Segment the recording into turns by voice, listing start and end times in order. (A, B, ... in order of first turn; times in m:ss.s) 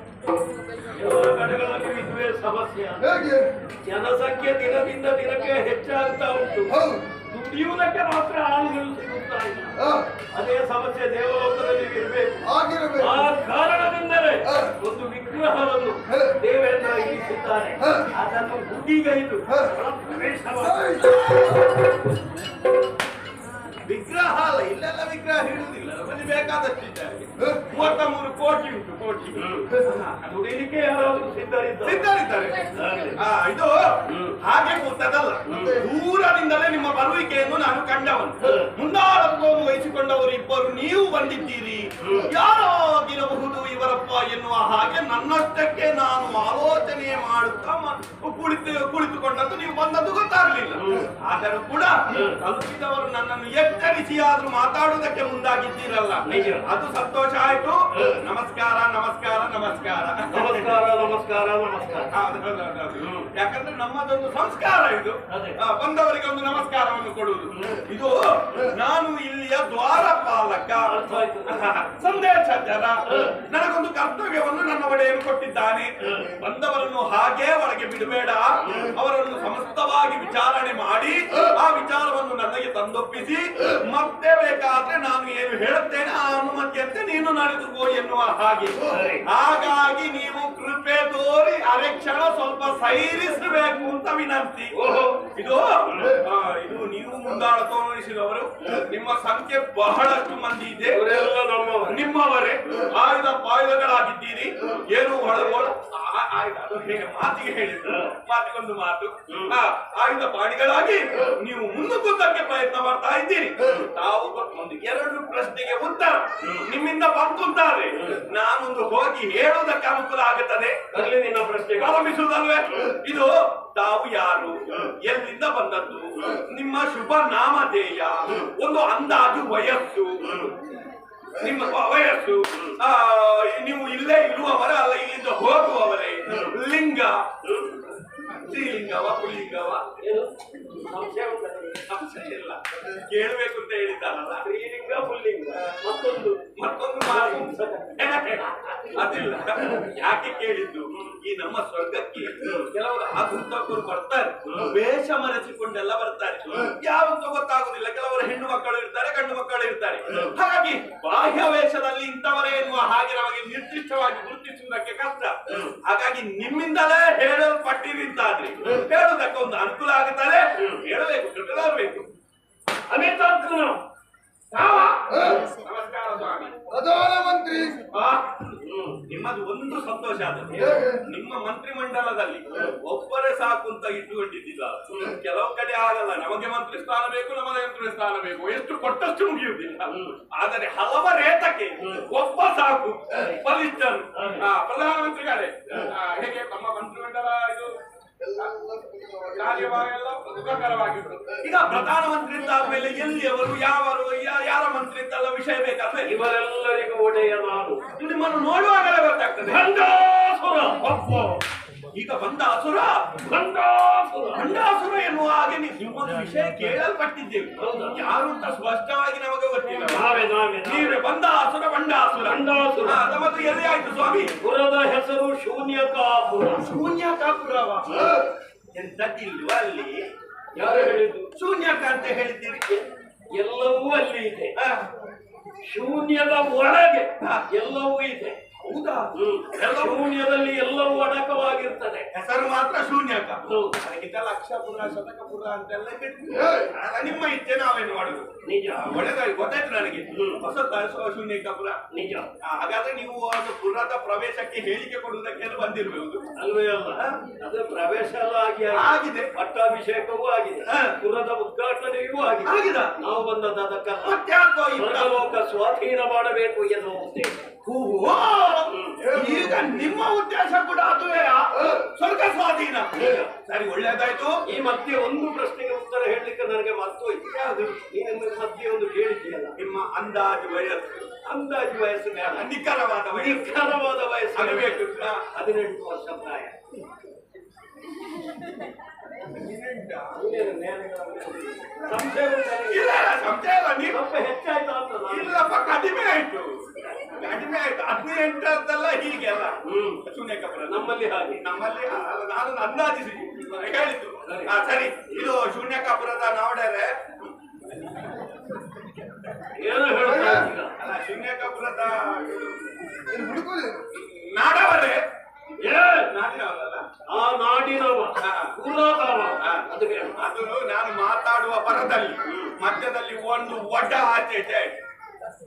0:00.9-0:12.4 A
0:03.1-0:03.4 B
0:12.5-0:13.1 B
0:12.9-0:21.6 A
0:20.8-0:21.6 B
0:23.8-0:30.3 C
0:29.4-0:32.1 A
0:31.8-1:00.7 C
0:32.7-0:33.2 A
0:34.1-0:34.4 A
0:35.5-0:35.8 A
0:42.0-0:42.3 A
0:50.8-0:51.1 A
0:52.1-0:52.4 A
0:56.3-0:56.7 A
1:00.3-1:02.1 A
1:02.1-1:10.9 C
1:03.0-1:03.3 A
1:05.3-1:05.6 A
1:07.5-1:07.8 A
1:10.9-1:11.7 A
1:11.5-1:34.7 C
1:28.8-1:29.2 A
1:34.7-1:35.2 A
1:35.3-1:41.2 C
1:40.9-1:42.0 A
1:41.9-2:00.8 C
1:49.3-1:49.6 A
2:00.9-2:02.1 A
2:01.8-2:10.4 C
2:10.3-2:10.5 A
2:11.4-2:17.2 C
2:18.3-2:19.9 C
2:20.0-2:21.9 A
2:21.8-2:24.4 C
2:24.4-2:26.4 A
2:26.6-2:52.1 C
2:27.1-2:28.4 A
2:52.9-2:53.8 A
2:54.5-2:56.6 C
2:56.7-2:57.8 B
2:57.9-2:58.4 C
2:58.6-2:59.0 A
2:59.1-3:17.7 C
3:18.3-3:18.7 C
3:18.7-3:19.3 B
3:19.2-3:26.1 C
3:26.0-3:27.8 A
3:28.0-3:29.7 C
3:29.5-3:31.4 A
3:31.9-3:33.1 C
3:33.2-3:34.5 A
3:34.3-3:44.4 C
3:37.6-3:38.0 A
3:39.9-3:41.0 A
3:42.2-3:43.0 A
3:44.4-3:46.7 A
3:46.6-3:50.1 C
3:50.5-3:51.3 A
3:51.4-3:52.8 C
3:53.3-3:54.6 A
3:54.6-3:54.9 C
3:55.6-3:58.4 A
3:57.2-3:57.4 C
3:58.6-4:00.0 C
3:59.2-4:02.1 A
4:02.1-4:11.8 C
4:03.5-4:03.7 A
4:08.4-4:08.9 A
4:10.1-4:10.4 A
4:11.9-4:12.3 A
4:12.4-4:16.2 C
4:16.4-4:24.2 A
4:18.7-4:19.3 C
4:20.7-4:21.0 C
4:22.4-4:22.9 C
4:24.0-4:25.2 C
4:24.8-4:27.4 A
4:27.6-4:34.4 C
4:28.7-4:29.0 A
4:33.0-4:33.3 A
4:34.5-4:39.6 A
4:39.6-4:41.1 C
4:41.2-4:42.5 A
4:42.3-4:43.5 C
4:43.1-4:46.6 A
4:44.4-4:45.3 C
4:49.3-4:50.2 C
4:50.1-4:52.9 A
4:52.7-4:54.0 C
4:53.9-4:55.5 A
4:55.1-5:07.0 C
4:59.6-5:00.0 A
5:00.7-5:01.4 A
5:04.3-5:04.5 A
5:09.6-5:10.7 A
5:10.8-5:13.3 C
5:13.1-5:13.8 B
5:13.8-5:15.0 C
5:15.6-5:16.1 A
5:16.0-5:16.9 C
5:17.1-5:20.2 A
5:18.2-5:18.5 C
5:19.4-5:24.7 C